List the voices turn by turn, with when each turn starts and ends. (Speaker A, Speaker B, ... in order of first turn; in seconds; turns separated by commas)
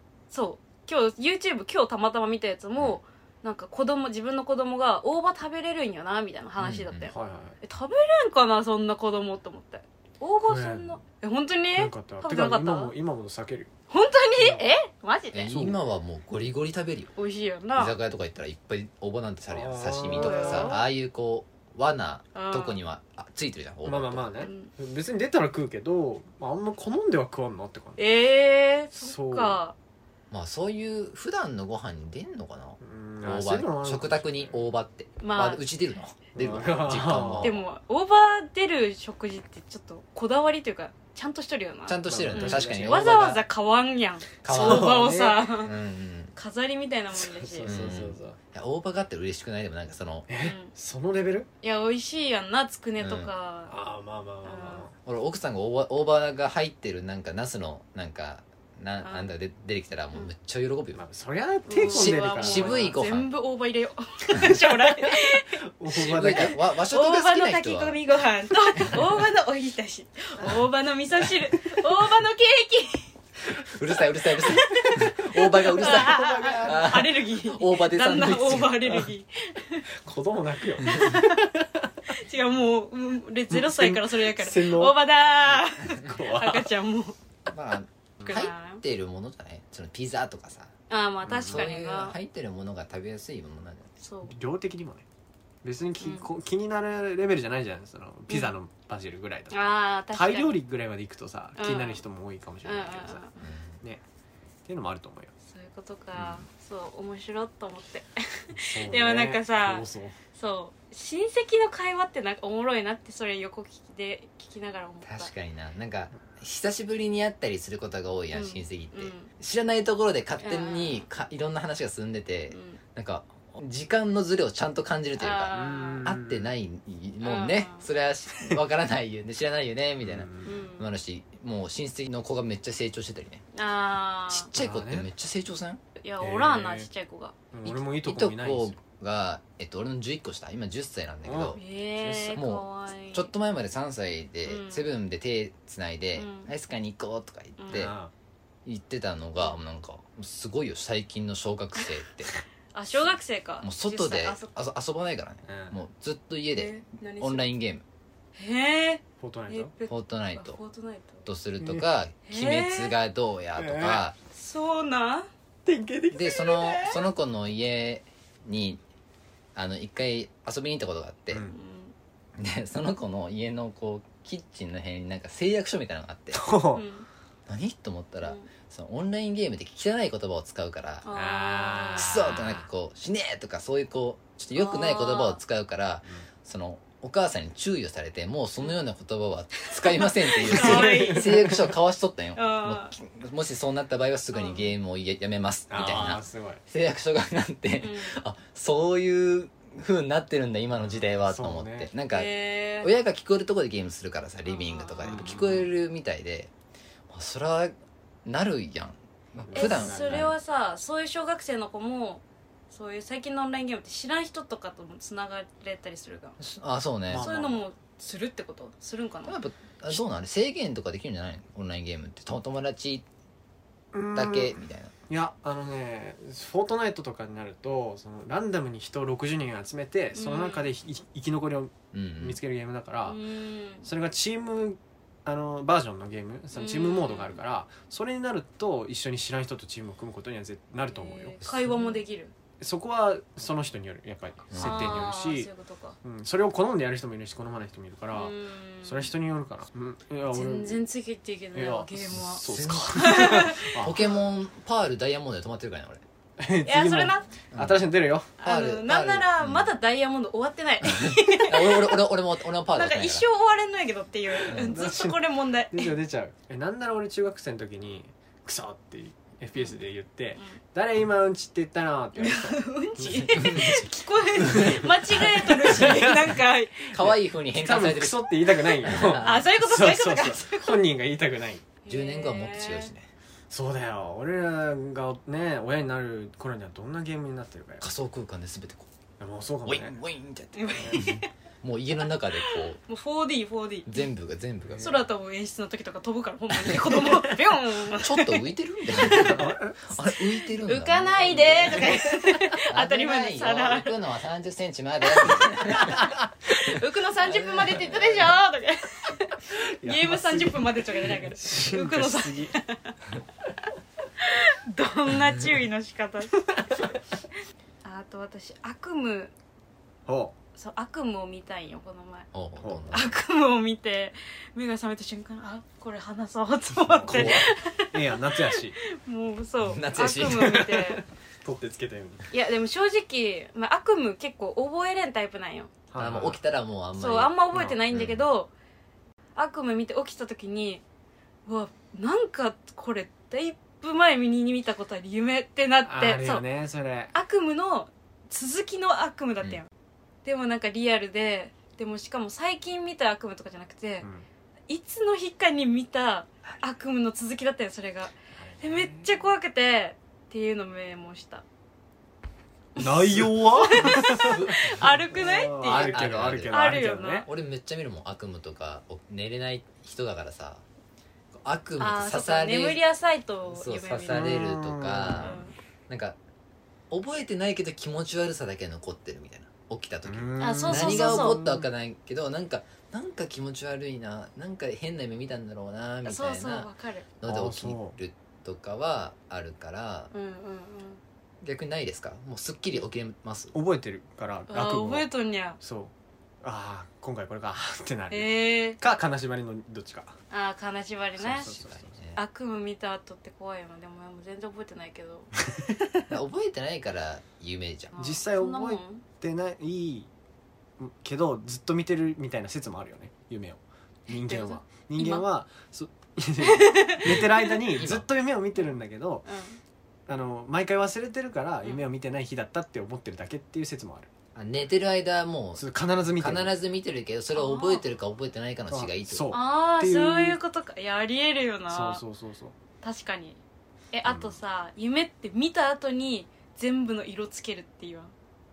Speaker A: 0.3-12.9, Speaker B: 6.6-7.1, Speaker C: 7.1-7.6, Speaker C: 10.4-11.0, Speaker C: 11.7-13.7, Speaker A: 13.9-15.6, Speaker C: 14.4-14.6, Speaker B: 15.3-17.1, Speaker A: 17.2-17.9, Speaker B: 17.7-24.3, Speaker C: 19.5-20.8, Speaker A: 20.1-20.8, Speaker A: 22.3-22.8, Speaker C: 23.8-28.0, Speaker A: 24.4-24.7, Speaker A: 28.0-29.7, Speaker C: 28.9-29.6, Speaker B: 30.3-37.6, Speaker C: 32.8-34.7, Speaker A: 35.2-35.6, Speaker C: 36.3-37.5, Speaker A: 37.4-45.7, Speaker B: 41.9-43.4, Speaker C: 42.0-43.0, Speaker B: 44.4-45.0, Speaker C: 44.5-45.5, Speaker B: 45.6-46.3, Speaker A: 46.4-47.7, Speaker C: 47.1-48.4, Speaker B: 47.6-50.3, Speaker C: 50.3-51.5, Speaker A: 50.4-50.7, Speaker A: 51.6-53.7, Speaker B: 53.0-53.3, Speaker C: 53.7-54.9, Speaker A: 54.4-54.9, Speaker B: 55.0-61.0, Speaker A: 59.0-59.3, Speaker C: 60.9-63.0, Speaker A: 61.7-65.6, Speaker B: 61.8-63.3, Speaker C: 65.7-66.5, Speaker B: 65.9-68.0, Speaker A: 66.2-73.1, Speaker B: 73.6-79.0, Speaker A: 74.5-75.0, Speaker C: 75.7-76.9, Speaker A: 75.8-79.8, Speaker C: 80.0-81.7, Speaker A: 80.8-81.5, Speaker A: 82.1-87.2, Speaker C: 83.5-85.0, Speaker C: 85.9-86.7, Speaker B: 87.5-90.7, Speaker A: 88.2-88.8, Speaker A: 90.9-92.2, Speaker C: 91.2-91.7, Speaker B: 91.5-93.9, Speaker A: 94.0-94.3, Speaker C: 94.2-95.0, Speaker C: 95.6-103.2, Speaker A: 96.0-96.3, Speaker A: 98.3-98.6, Speaker A: 99.5-100.6, Speaker A: 101.6-102.0, Speaker A: 102.6-103.4, Speaker B: 103.4-103.7, Speaker C: 104.7-105.3, Speaker A: 105.5-115.3, Speaker B: 106.1-106.4, Speaker C: 108.5-110.2, Speaker B: 115.0-133.4, Speaker A: 118.3-119.3, Speaker A: 120.4-121.0, Speaker A: 122.5-122.8, Speaker A: 125.2-126.1, Speaker C: 125.5-126.5, Speaker A: 127.2-127.9, Speaker C: 130.0-130.6, Speaker A: 130.4-130.9, Speaker A: 133.5-134.5, Speaker B: 134.3-135.8, Speaker C: 134.6-135.1, Speaker A: 136.0-137.4, Speaker C: 136.2-136.9, Speaker C: 137.5-138.8, Speaker B: 137.6-141.6, Speaker C: 141.2-142.4, Speaker A: 141.6-143.3, Speaker B: 142.3-147.9, Speaker A: 144.4-144.9, Speaker A: 146.2-146.5, Speaker A: 147.6-147.9, Speaker C: 147.7-148.1, Speaker B: 148.6-152.3, Speaker A: 152.7-154.5, Speaker B: 153.6-157.8, Speaker C: 155.4-155.8, Speaker A: 156.5-157.5, Speaker A: 158.3-161.2, Speaker C: 159.2-159.7, Speaker B: 159.9-160.6, Speaker B: 161.2-164.2, Speaker C: 161.6-161.9, Speaker A: 162.2-162.9, Speaker C: 163.6-164.0, Speaker A: 164.3-165.3, Speaker C: 165.6-166.9, Speaker B: 166.1-168.8, Speaker B: 169.5-171.5, Speaker A: 171.5-171.9, Speaker B: 172.4-176.5, Speaker C: 176.3-176.8, Speaker A: 176.7-177.1, Speaker B: 177.5-181.1, Speaker A: 178.2-178.5, Speaker A: 181.0-182.1, Speaker C: 181.1-182.7, Speaker B: 182.0-206.5, Speaker A: 184.5-185.4, Speaker A: 189.6-191.5, Speaker C: 190.4-191.7, Speaker A: 192.3-192.9, Speaker A: 194.3-194.7, Speaker C: 195.7-196.6, Speaker A: 197.8-198.2, Speaker C: 200.8-201.9, Speaker A: 202.1-202.9, Speaker A: 204.4-205.4, Speaker C: 205.0-205.7, Speaker B: 207.1-210.3, Speaker C: 209.4-210.3, Speaker A: 209.5-216.4, Speaker B: 216.4-217.3, Speaker C: 217.1-217.6, Speaker A: 217.2-219.4, Speaker B: 219.2-223.0, Speaker C: 223.9-233.2, Speaker B: 224.1-224.9, Speaker A: 230.1-230.7, Speaker B: 231.9-232.4, Speaker A: 233.1-233.9, Speaker C: 233.8-241.4, Speaker A: 236.5-237.4, Speaker A: 240.8-242.3, Speaker B: 241.4-241.8, Speaker C: 242.6-245.5, Speaker B: 244.5-244.9, Speaker A: 244.6-246.0, Speaker C: 246.0-250.8, Speaker A: 248.1-249.1, Speaker A: 250.3-252.4, Speaker C: 251.5-254.1, Speaker B: 252.4-256.0, Speaker A: 252.9-253.7, Speaker C: 256.4-258.3, Speaker A: 256.6-257.3, Speaker B: 257.5-257.8, Speaker A: 258.4-262.0, Speaker B: 258.4-259.7, Speaker B: 260.8-263.2, Speaker A: 262.7-265.9, Speaker C: 264.4-273.7, Speaker B: 264.5-264.8, Speaker A: 269.5-269.8, Speaker A: 272.2-276.9, Speaker B: 273.3-273.8, Speaker C: 274.4-276.3, Speaker B: 275.7-276.0, Speaker B: 276.9-279.4, Speaker C: 277.0-281.6, Speaker A: 278.9-280.8, Speaker A: 281.8-282.9, Speaker B: 281.9-283.1, Speaker C: 283.5-287.9, Speaker B: 287.8-288.9, Speaker C: 289.2-290.0, Speaker B: 289.6-292.8, Speaker A: 290.5-291.3, Speaker C: 290.8-291.2, Speaker A: 292.4-294.1, Speaker B: 293.9-295.0, Speaker A: 294.8-299.5, Speaker C: 296.9-297.2, Speaker B: 297.9-301.9, Speaker C: 299.1-299.8, Speaker A: 300.6-303.9, Speaker C: 301.7-302.1, Speaker B: 302.7-306.1, Speaker A: 305.2-313.0, Speaker B: 307.2-308.4, Speaker C: 309.5-312.5, Speaker A: 314.2-316.4, Speaker C: 316.5-316.8, Speaker A: 317.8-319.3, Speaker C: 320.1-320.3, Speaker A: 320.5-322.3, Speaker B: 322.3-323.2, Speaker C: 322.6-322.9, Speaker A: 322.9-331.0, Speaker C: 326.8-328.8, Speaker B: 327.1-327.5, Speaker B: 329.6-330.6, Speaker C: 330.3-332.3, Speaker A: 332.3-335.7, Speaker C: 335.9-336.4, Speaker B: 335.9-338.2, Speaker A: 336.9-338.5, Speaker A: 339.4-340.8, Speaker A: 341.4-346.4, Speaker C: 345.8-347.1, Speaker A: 347.1-349.7, Speaker A: 350.2-354.1, Speaker A: 354.7-361.4, Speaker C: 358.4-359.1, Speaker A: 362.8-367.3, Speaker C: 362.8-367.3, Speaker B: 364.0-366.7, Speaker B: 367.2-370.6, Speaker B: 371.3-372.8, Speaker A: 371.8-374.4, Speaker B: 373.5-376.2, Speaker C: 374.1-375.4, Speaker A: 375.1-375.5, Speaker B: 376.9-390.1, Speaker C: 380.1-381.6, Speaker A: 380.4-381.4, Speaker A: 386.0-387.1, Speaker C: 387.2-388.0, Speaker A: 390.1-391.0, Speaker B: 391.4-393.5, Speaker C: 393.5-395.1, Speaker A: 394.5-395.6, Speaker C: 395.6-395.9, Speaker C: 396.4-400.1, Speaker A: 398.1-398.8, Speaker A: 400.3-401.5, Speaker B: 401.2-402.2, Speaker C: 401.2-401.9, Speaker A: 402.1-405.3, Speaker B: 406.1-407.9, Speaker A: 407.9-409.0, Speaker C: 408.0-410.1, Speaker C: 410.8-419.2, Speaker A: 414.1-415.2, Speaker A: 416.5-417.0, Speaker B: 417.1-418.1, Speaker A: 419.2-419.6, Speaker C: 420.1-424.1, Speaker B: 424.3-429.3, Speaker C: 425.6-426.5, Speaker A: 427.3-427.8, Speaker C: 428.7-430.4, Speaker A: 429.3-432.0, Speaker C: 431.7-432.5, Speaker A: 432.8-433.4, Speaker A: 433.9-438.1, Speaker C: 434.1-434.3